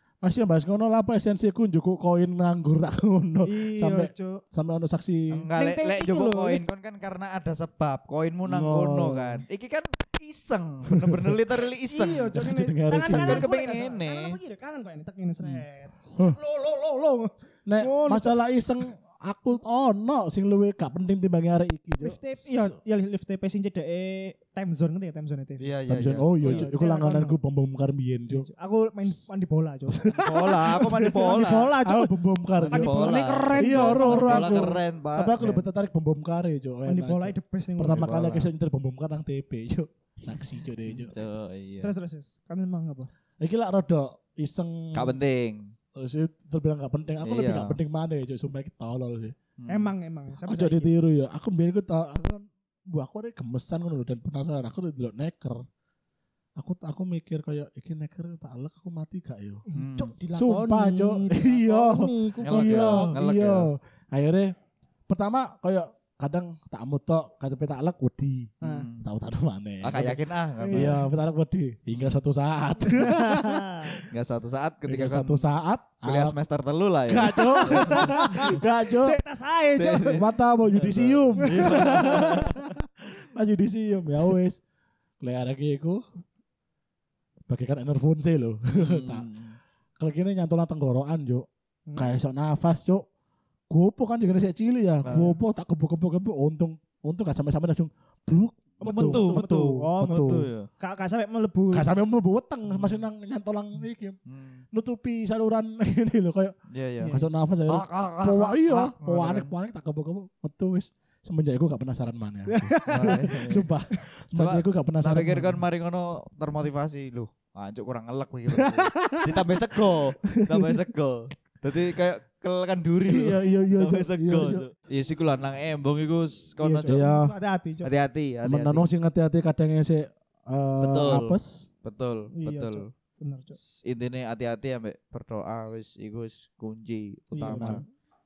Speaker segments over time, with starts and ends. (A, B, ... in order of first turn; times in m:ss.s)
0:00.2-0:05.4 A
0:03.4-0:04.4 B
0:05.3-0:12.4 C
0:05.5-0:06.7 B
0:08.5-0:09.4 A
0:10.9-0:11.4 A
0:11.9-0:18.4 B
0:12.3-0:13.5 A
0:13.0-0:14.4 C
0:17.7-0:22.7 A
0:22.0-0:25.7 B
0:25.6-0:26.7 C
0:25.9-0:28.5 A
0:26.4-0:27.4 B
0:28.3-0:34.7 B
0:30.0-0:41.2 A
0:30.2-0:31.8 C
0:32.6-0:35.6 C
0:36.9-0:38.2 B
0:37.9-0:38.5 C
0:41.0-0:41.9 C
0:41.8-0:43.1 B
0:43.4-0:45.2 A
0:44.9-0:45.7 C
0:46.0-0:49.4 A
0:47.2-0:47.8 C
0:49.6-0:49.9 C
0:49.7-0:50.9 B
0:50.5-0:55.6 A
0:56.6-0:59.6 A
0:59.7-1:03.2 B
0:59.8-1:00.2 C
1:00.4-1:04.5 A
1:02.4-1:03.7 C
1:05.1-1:10.2 A
1:08.6-1:08.9 B
1:08.6-1:09.0 C
1:09.8-1:11.0 C
1:10.6-1:11.1 B
1:10.7-1:13.7 A
1:12.9-1:14.0 B
1:14.1-1:15.4 C
1:14.9-1:16.4 A
1:16.0-1:18.3 C
1:17.1-1:19.2 A
1:17.2-1:20.2 B
1:19.8-1:22.7 C
1:20.1-1:24.6 A
1:21.4-1:22.3 B
1:25.2-1:26.0 A
1:27.5-1:29.3 A
1:28.8-1:29.6 C
1:30.0-1:33.0 A
1:31.9-1:32.1 B
1:33.7-1:40.5 A
1:35.0-1:35.4 C
1:38.8-1:41.9 B
1:39.0-1:39.4 C
1:40.0-1:40.7 C
1:41.7-1:44.2 A
1:44.3-1:44.6 C
1:44.7-1:46.6 A
1:46.7-1:47.2 C
1:47.1-1:55.6 A
1:47.7-1:49.5 C
1:52.5-1:53.6 B
1:52.9-1:53.7 C
1:54.4-2:07.0 C
1:58.5-1:59.5 A
2:00.4-2:00.8 A
2:03.1-2:04.6 A
2:06.6-2:07.9 B
2:06.9-2:07.3 A
2:07.8-2:08.8 C
2:08.4-2:11.6 A
2:10.8-2:12.8 C
2:12.3-2:13.6 B
2:13.7-2:17.8 C
2:17.3-2:17.9 B
2:17.5-2:17.8 A